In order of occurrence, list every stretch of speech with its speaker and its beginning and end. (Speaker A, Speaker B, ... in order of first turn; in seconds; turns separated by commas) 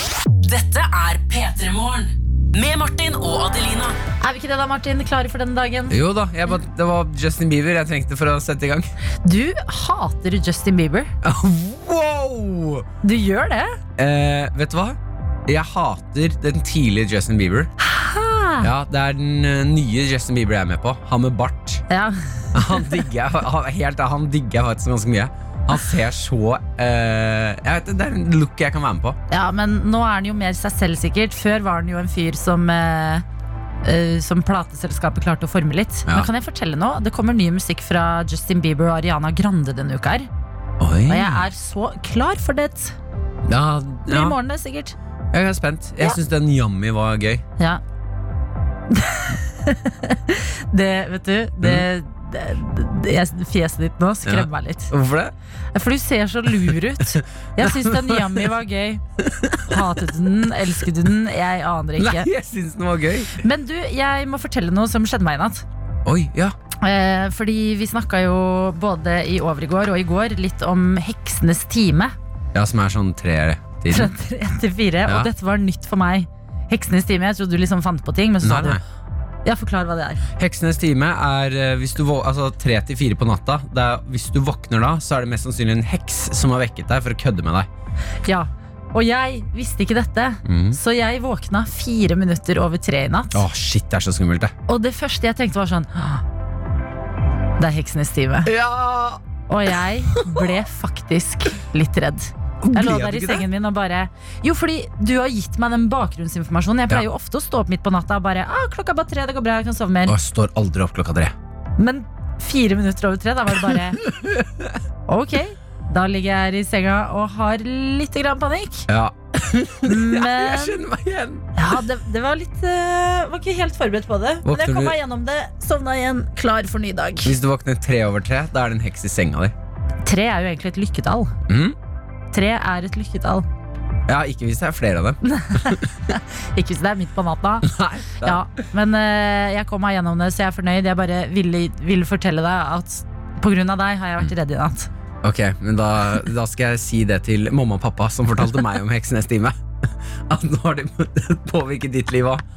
Speaker A: 0.4-4.0, Speaker B: 4.2-6.0, Speaker C: 5.9-8.9, Speaker B: 9.2-11.1, Speaker C: 11.2-12.9, Speaker B: 13.0-13.8, Speaker C: 14.0-17.7, Speaker B: 17.8-18.7, Speaker C: 18.6-21.8, Speaker B: 21.9-22.9, Speaker C: 22.5-29.2, Speaker B: 29.3-33.2, Speaker B: 33.8-40.3, Speaker C: 40.8-41.4, Speaker B: 41.1-42.9, Speaker C: 43.5-44.4, Speaker B: 44.1-44.9, Speaker C: 45.3-47.4, Speaker B: 48.9-54.9, Speaker C: 54.2-55.3, Speaker B: 55.7-59.0, Speaker C: 57.1-58.5, Speaker C: 59.2-60.1, Speaker B: 59.6-62.3, Speaker C: 62.0-63.4, Speaker B: 63.4-65.6, Speaker C: 66.0-66.5, Speaker B: 66.8-72.1, Speaker C: 72.5-74.1, Speaker B: 73.9-78.8, Speaker C: 75.0-75.3, Speaker C: 78.4-78.8, Speaker B: 79.4-80.2, Speaker C: 80.4-87.7, Speaker B: 88.2-93.4, Speaker C: 90.4-90.8, Speaker C: 93.3-94.5, Speaker B: 94.7-96.2, Speaker B: 97.6-98.5, Speaker C: 98.4-99.2, Speaker B: 99.5-110.1, Speaker C: 100.2-100.5, Speaker C: 102.6-103.5, Speaker C: 110.0-111.3, Speaker B: 111.8-114.0, Speaker C: 113.7-114.8, Speaker B: 115.1-118.9, Speaker C: 118.9-121.8, Speaker B: 119.8-120.8, Speaker B: 121.5-127.3, Speaker C: 124.4-125.0, Speaker C: 127.2-129.5, Speaker B: 130.0-131.3, Speaker C: 131.5-131.8, Speaker B: 132.3-133.5, Speaker C: 134.1-135.9, Speaker B: 135.2-144.9, Speaker C: 137.6-138.4, Speaker C: 145.2-152.4